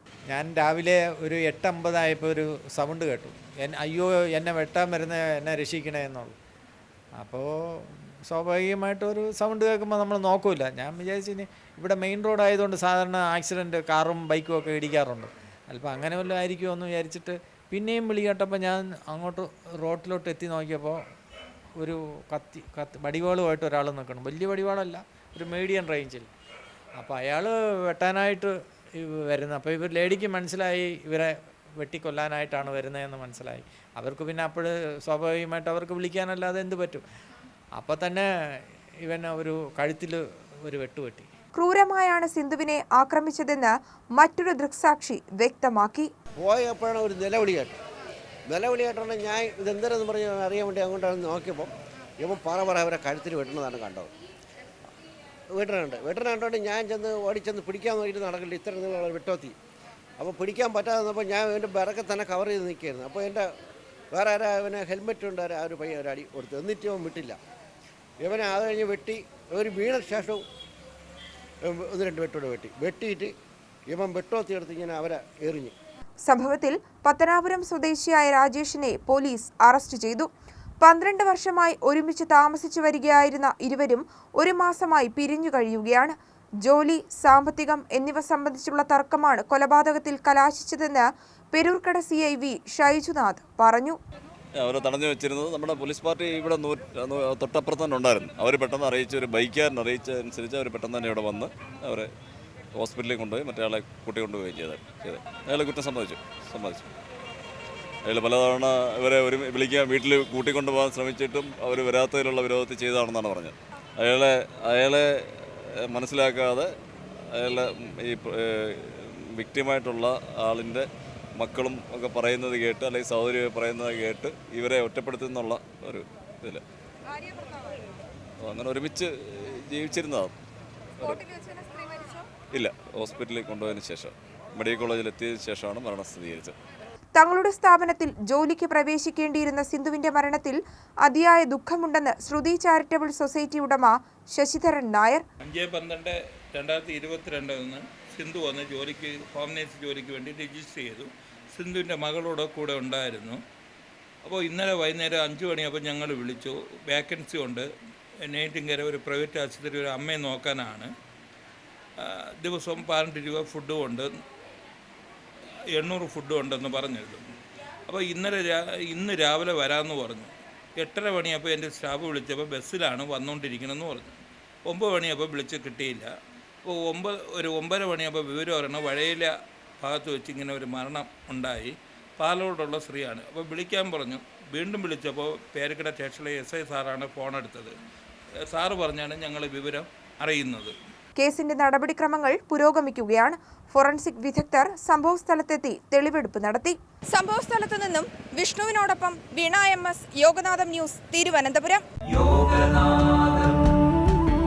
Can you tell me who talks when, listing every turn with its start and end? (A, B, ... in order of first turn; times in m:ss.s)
0:00.3-0:06.4 A
0:07.2-0:21.0 A
0:21.8-0:26.3 A
0:26.9-0:37.0 A
0:37.8-0:41.3 A
0:41.5-0:46.1 B
0:46.4-0:47.8 C
0:48.5-0:54.1 C
0:55.5-0:59.5 C
1:00.2-1:03.5 C
1:04.1-1:07.4 C
1:08.2-1:10.4 C
1:11.6-1:13.3 C
1:13.9-1:15.7 C
1:16.2-1:20.3 B
1:20.8-1:34.0 B
1:34.6-1:42.1 D
1:42.7-1:46.9 D
1:48.0-1:56.7 D
1:57.3-2:06.6 D
2:08.4-2:10.3 D
2:11.0-2:12.2 B
2:12.5-2:16.5 D
2:17.1-2:25.2 B
2:25.4-2:33.4 E
2:34.2-2:37.7 E
2:38.2-2:40.9 E
2:42.0-2:44.1 E
2:45.7-2:47.2 E
2:47.9-2:56.1 E
2:56.6-3:07.7 E
3:08.5-3:10.7 E
3:11.2-3:21.8 B
3:22.2-3:23.0 E